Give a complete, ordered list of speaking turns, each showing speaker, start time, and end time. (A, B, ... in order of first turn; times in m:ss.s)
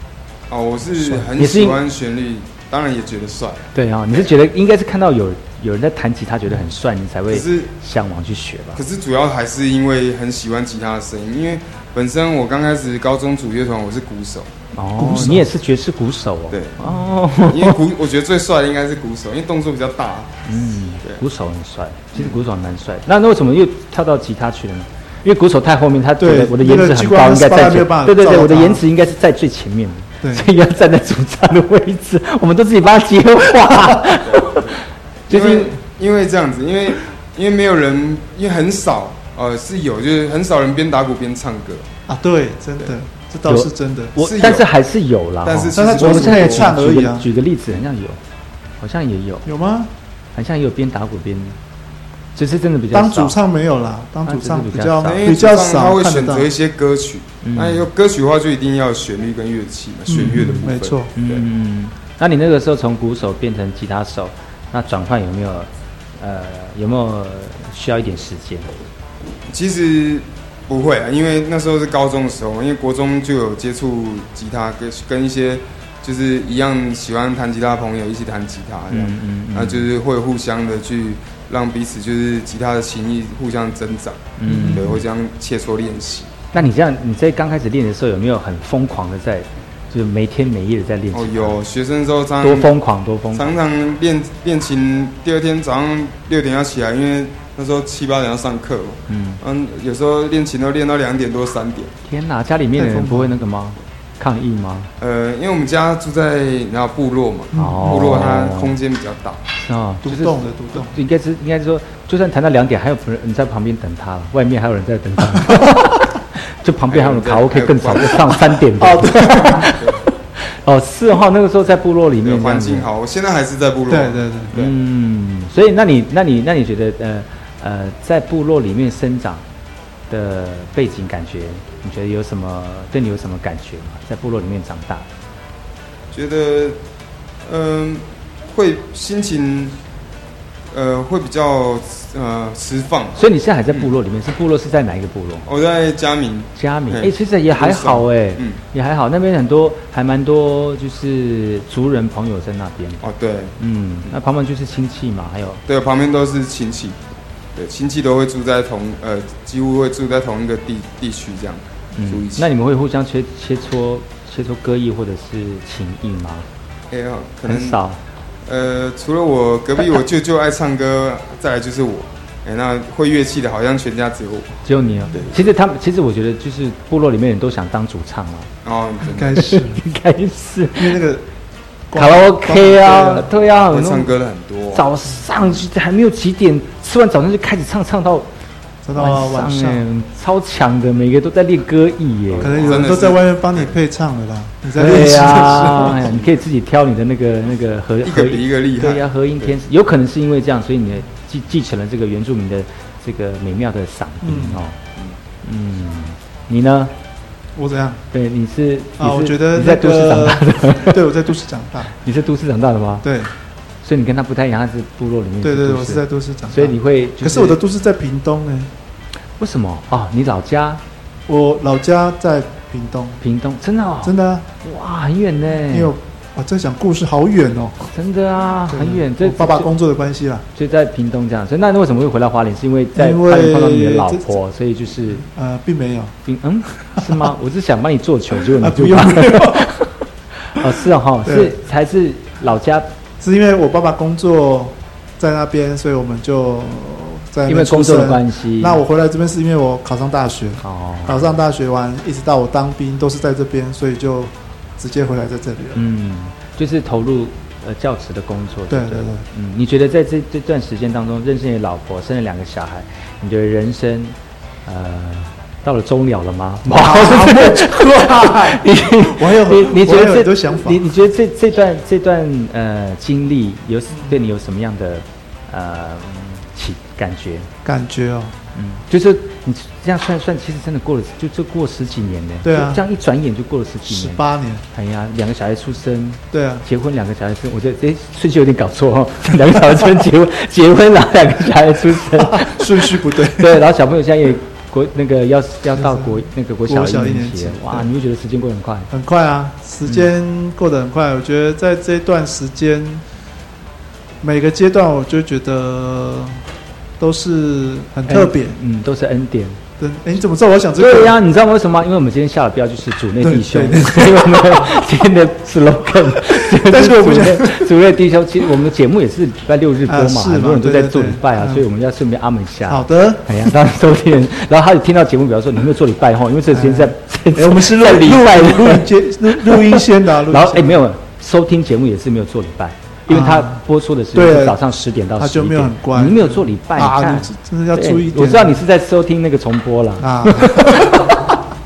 0:00.5-0:04.3 A
0:01.1-0:01.8 B
0:03.7-0:08.8 B
0:07.3-0:07.7 A
0:08.8-0:15.5 A
0:14.7-0:17.8 B
0:16.5-0:16.8 A
0:17.4-0:20.4 A
0:20.5-0:34.8 B
0:26.2-0:28.8 C
0:30.2-0:30.4 C
0:34.3-0:34.7 A
0:35.3-0:35.8 B
0:35.3-0:41.9 A
0:42.1-0:44.1 C
0:43.4-0:48.2 B
0:44.2-0:44.6 A
0:45.4-0:46.7 A
0:45.7-0:47.2 C
0:48.8-0:49.5 B
0:49.4-0:49.9 C
0:50.3-0:51.6 B
0:52.4-0:53.4 B
0:52.9-0:56.5 C
0:54.2-0:55.2 B
0:55.1-1:01.4 A
0:57.4-0:57.9 B
1:00.1-1:01.1 C
1:00.1-1:08.7 B
1:09.5-1:26.4 A
1:18.9-1:19.9 B
1:24.4-1:25.0 B
1:26.5-1:31.5 B
1:31.1-1:32.7 A
1:32.4-1:33.6 B
1:33.3-1:41.9 A
1:39.1-1:39.4 B
1:42.0-1:44.9 B
1:42.7-1:43.3 C
1:45.0-1:49.4 A
1:47.5-1:47.9 C
1:47.5-1:48.8 B
1:49.6-1:59.9 B
1:50.0-1:50.9 C
1:56.9-1:58.4 A
1:58.8-1:59.6 C
2:00.6-2:02.9 B
2:02.2-2:04.7 A
2:03.9-2:04.5 C
2:04.6-2:09.4 B
2:10.1-2:15.1 B
2:16.1-2:16.8 A
2:17.4-2:19.8 A
2:20.7-2:23.9 A
2:23.2-2:25.5 B
2:25.4-2:28.6 A
2:26.5-2:33.0 B
2:33.0-2:33.5 A
2:33.6-2:35.6 B
2:35.7-2:37.0 A
2:37.5-2:42.4 A
2:41.9-2:46.4 B
2:46.9-2:47.8 A
2:47.5-2:48.0 B
2:48.4-2:55.4 A
2:54.6-2:58.5 B
2:58.6-2:59.4 A
2:59.2-2:59.8 C
2:59.3-3:01.0 B
3:00.8-3:01.2 C
3:01.9-3:03.3 C
3:01.9-3:04.1 B
3:03.7-3:04.8 A
3:04.7-3:08.3 B
3:08.8-3:09.8 C
3:08.9-3:12.7 B
3:12.4-3:13.7 A
3:12.4-3:16.1 C
3:14.7-3:24.8 B
3:18.0-3:19.5 A
3:24.2-3:24.6 C
3:25.4-3:26.9 B
3:27.6-3:28.0 C
3:28.1-3:31.1 B
3:29.0-3:31.9 C
3:31.9-3:33.2 B
3:33.0-3:33.3 C
3:33.8-3:37.6 B
3:35.4-3:38.7 C
3:39.4-3:40.8 B
3:41.3-3:43.2 C
3:43.2-3:45.9 B
3:44.0-3:44.4 C
3:45.7-3:47.9 C
3:47.9-3:49.7 B
3:48.7-3:50.4 C
3:50.5-3:55.2 B
3:52.9-3:54.4 C
3:55.2-3:56.1 C
3:56.2-3:59.9 B
3:57.0-3:57.2 C
3:58.6-3:59.7 C
4:00.6-4:02.8 B
4:01.2-4:01.6 C
4:03.2-4:15.8 C
4:07.4-4:08.8 B
4:10.6-4:11.4 B
4:15.7-4:37.5 B
4:18.7-4:19.2 C
4:26.6-4:30.8 C
4:33.9-4:34.2 C
4:37.6-4:38.3 C
4:38.6-4:58.9 B
4:42.4-4:42.8 C
4:43.8-4:44.6 C
4:46.3-4:46.6 C
4:52.2-4:53.6 C
4:55.7-4:57.9 C
4:58.9-5:03.0 C
5:04.2-5:06.4 C
5:07.0-5:08.6 C
5:08.0-5:09.6 B
5:09.8-5:11.2 C
5:10.8-5:41.1 B
5:13.2-5:14.8 C
5:16.3-5:17.7 C
5:19.9-5:21.6 C
5:22.7-5:23.4 C
5:26.5-5:30.8 C
5:33.1-5:34.6 C
5:35.2-5:38.6 C
5:40.0-5:40.9 C